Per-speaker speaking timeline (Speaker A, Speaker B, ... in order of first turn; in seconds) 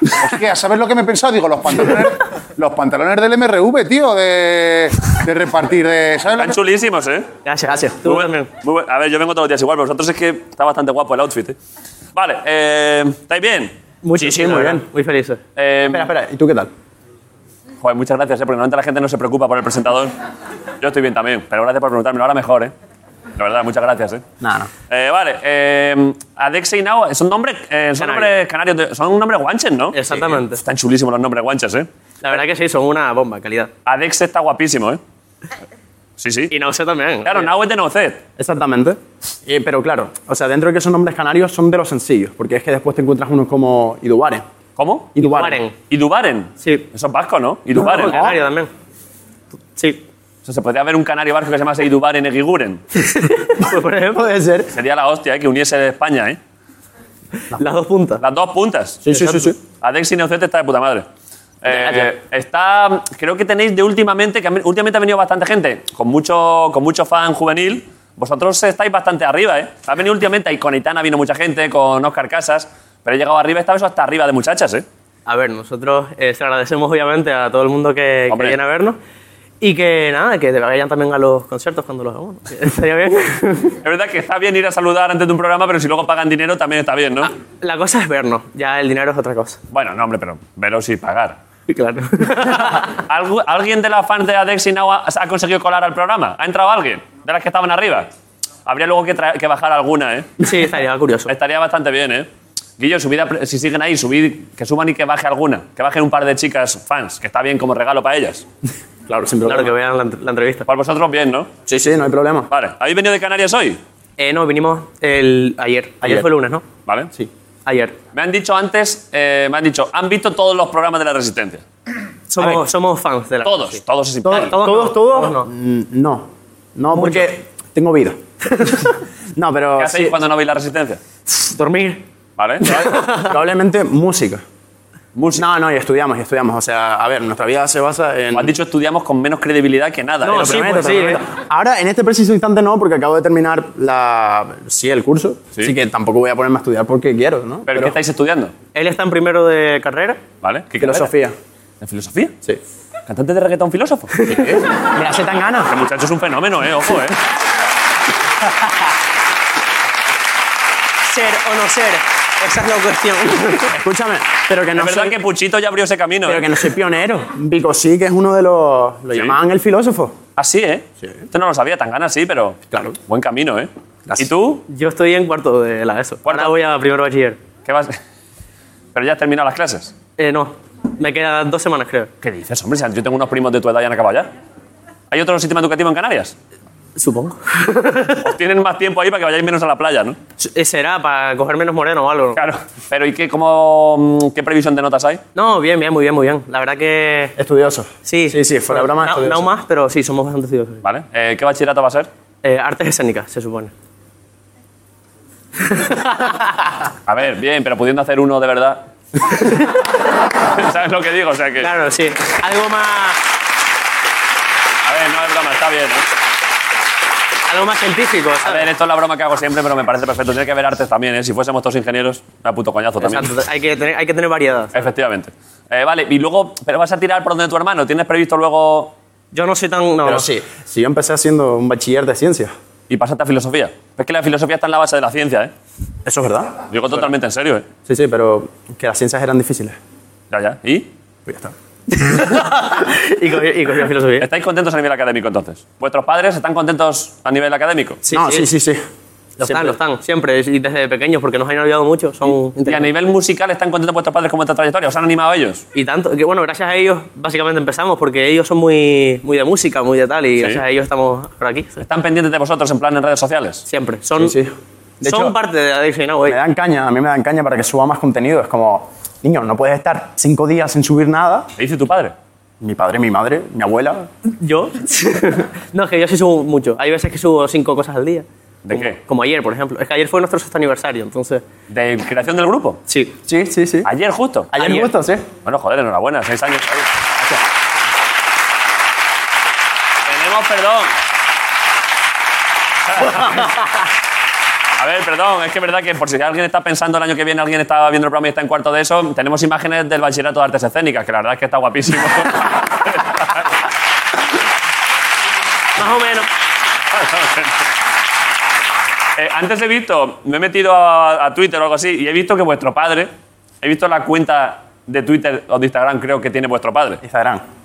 Speaker A: 0.2-6.6
Speaker B: 6.4-7.3, 8.0-11.6, 12.1-13.7, 15.6-16.1, 17.8-20.1, 20.8-22.7, 23.4-24.2, 24.9-31.9, 33.9-35.0, 36.2-36.5, 37.2-38.2, 44.8-45.1, 45.9-48.3, 50.5-52.8, 54.7-56.4, 58.2-59.0, 59.8-61.1, 61.6-74.8, 78.3-78.5, 83.8-87.3, 89.7-91.4, 93.0-98.1, 98.7-100.3, 101.3-102.3, 102.8-108.4, 110.7-111.5, 112.5-113.8, 118.1-121.6, 123.4-124.6, 129.8-131.0, 132.4-133.0, 135.1-135.5, 138.3-141.2, 147.7-148.5, 150.4-151.1, 151.8-152.3, 153.1-154.2, 155.7-157.2, 164.8-166.5, 169.1-169.4, 170.4-174.6, 176.2-176.5, 177.6-178.0, 178.9-179.9, 182.2-184.3, 185.1-186.3, 188.2-190.2, 192.3-195.2, 200.8-202.1, 207.1-208.8, 210.5-211.7, 214.8-216.1, 218.4-223.3, 224.7-228.9, 232.9-235.5, 236.7-237.7, 240.3-240.9, 244.2-248.0, 252.6-255.6, 261.8-263.6, 271.6-272.1, 278.6-279.0, 281.7-282.8, 283.8-284.5, 285.4-286.9, 290.1-290.9, 292.9-293.5, 294.8-303.5, 306.9-307.5, 309.2-313.1, 313.6-317.0
Speaker C: 7.4-8.5, 14.0-15.4, 28.0-28.3, 29.9-30.6, 32.2-33.7, 36.5-37.5, 45.2-45.7, 47.8-48.7, 49.8-50.0, 53.0-54.2, 57.5-58.2, 59.1-59.5, 61.6-62.1, 75.2-79.0, 79.6-83.7, 87.6-89.6, 91.7-92.8, 100.4-101.3, 109.5-110.7, 114.2-116.6, 117.7-118.0, 122.3-123.8, 124.3-125.5, 126.9-127.3, 131.3-132.0, 132.8-133.2, 140.2-141.2, 148.7-150.2, 154.1-154.5, 161.0-163.7, 174.7-177.4, 180.2-182.1, 186.9-188.2, 190.4-192.4, 195.3-197.3, 198.1-200.8, 202.4-203.7, 205.6-206.4, 211.6-213.2, 217.5-218.7, 223.0-224.7, 229.3-230.3, 241.9-244.3, 248.1-248.4, 249.4-252.9, 255.7-261.8, 263.7-264.3, 265.0-266.4, 274.3-281.4, 282.9-283.1, 284.6-284.9, 305.8-306.3
Speaker D: 14.2-14.9, 15.9-16.7, 24.4-24.7, 38.4-44.5, 45.1-45.6, 47.8-48.4, 54.1-54.7, 59.0-59.6, 109.1-109.7, 111.7-112.5, 116.0-116.3, 122.4-122.6, 124.2-128.2, 129.3-130.2, 132.6-134.4, 135.3-138.5, 140.2-148.0, 150.7-151.3, 154.2-155.7, 163.7-165.2, 166.2-170.2, 172.7-173.0, 174.1-174.3, 197.4-199.5, 230.0-232.5, 236.0-236.6, 237.8-239.8, 241.2-241.5, 248.1-248.8, 249.4-249.8, 264.1-265.4, 266.2-271.5, 272.6-274.1, 283.2-283.9, 284.5-285.3, 317.0-317.4